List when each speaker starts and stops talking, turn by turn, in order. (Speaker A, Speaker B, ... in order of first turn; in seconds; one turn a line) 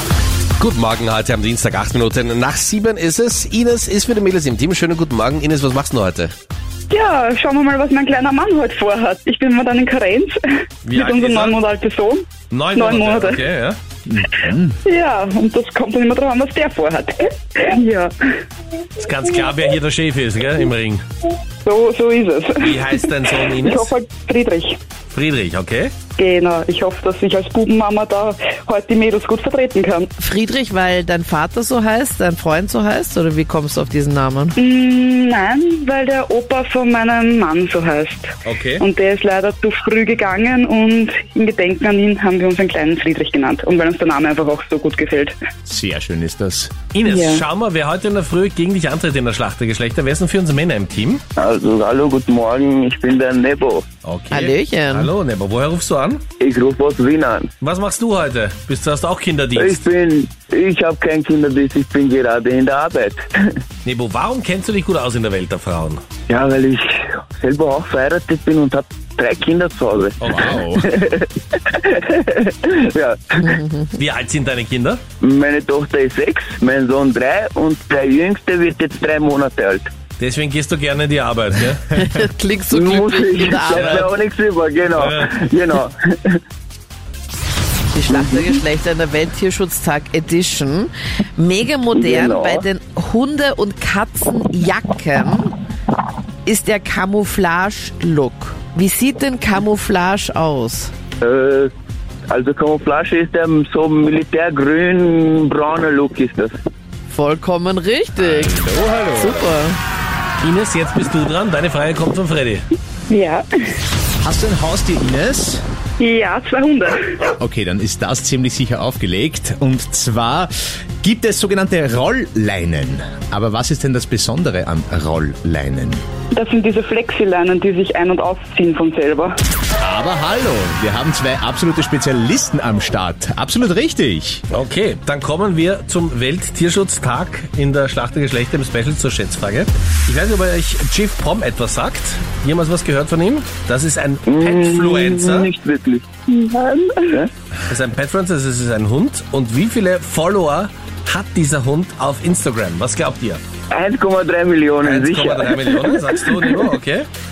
Speaker A: 0.6-6.3
Speaker B: 6.9-13.4
Speaker A: 10.8-11.6
Speaker A: 12.5-13.8
Speaker C: 14.1-14.8
Speaker B: 14.8-18.1
Speaker A: 19.0-21.0
Speaker B: 21.6-24.8
Speaker A: 22.6-23.9
Speaker A: 25.1-25.9
Speaker B: 26.2-30.1
Speaker D: 30.2-34.6
Speaker B: 34.6-45.4
Speaker A: 38.5-38.9
Speaker C: 45.7-46.8
Speaker A: 46.9-51.2
Speaker B: 47.0-47.5
Speaker E: 51.4-53.9
Speaker A: 54.0-56.2
Speaker D: 54.3-55.1
Speaker E: 56.4-57.5
Speaker A: 57.6-59.9
Speaker E: 59.6-63.5
Speaker A: 63.9-66.0
Speaker E: 66.3-73.6
Speaker C: 70.2-71.0
Speaker A: 70.2-70.6
Speaker D: 73.4-73.9
Speaker A: 74.0-75.0
Speaker E: 75.2-79.9
Speaker A: 80.2-81.9
Speaker D: 81.9-84.1
Speaker E: 82.7-86.4
Speaker A: 83.7-84.0
Speaker A: 85.0-85.4
Speaker D: 87.9-95.5
Speaker E: 88.1-88.6
Speaker E: 91.9-92.7
Speaker D: 96.5-100.9
Speaker E: 101.2-101.7
Speaker E: 102.3-106.5
Speaker D: 107.1-109.8
Speaker C: 108.2-109.5
Speaker A: 110.4-112.7
Speaker B: 113.1-113.8
Speaker C: 114.2-115.6
Speaker B: 116.0-117.2
Speaker C: 117.4-120.5
Speaker C: 121.0-126.0
Speaker B: 126.3-129.3
Speaker C: 129.8-134.4
Speaker A: 134.5-145.5
Speaker E: 144.3-147.3
Speaker A: 147.7-153.4
Speaker E: 153.7-156.7
Speaker A: 154.8-157.1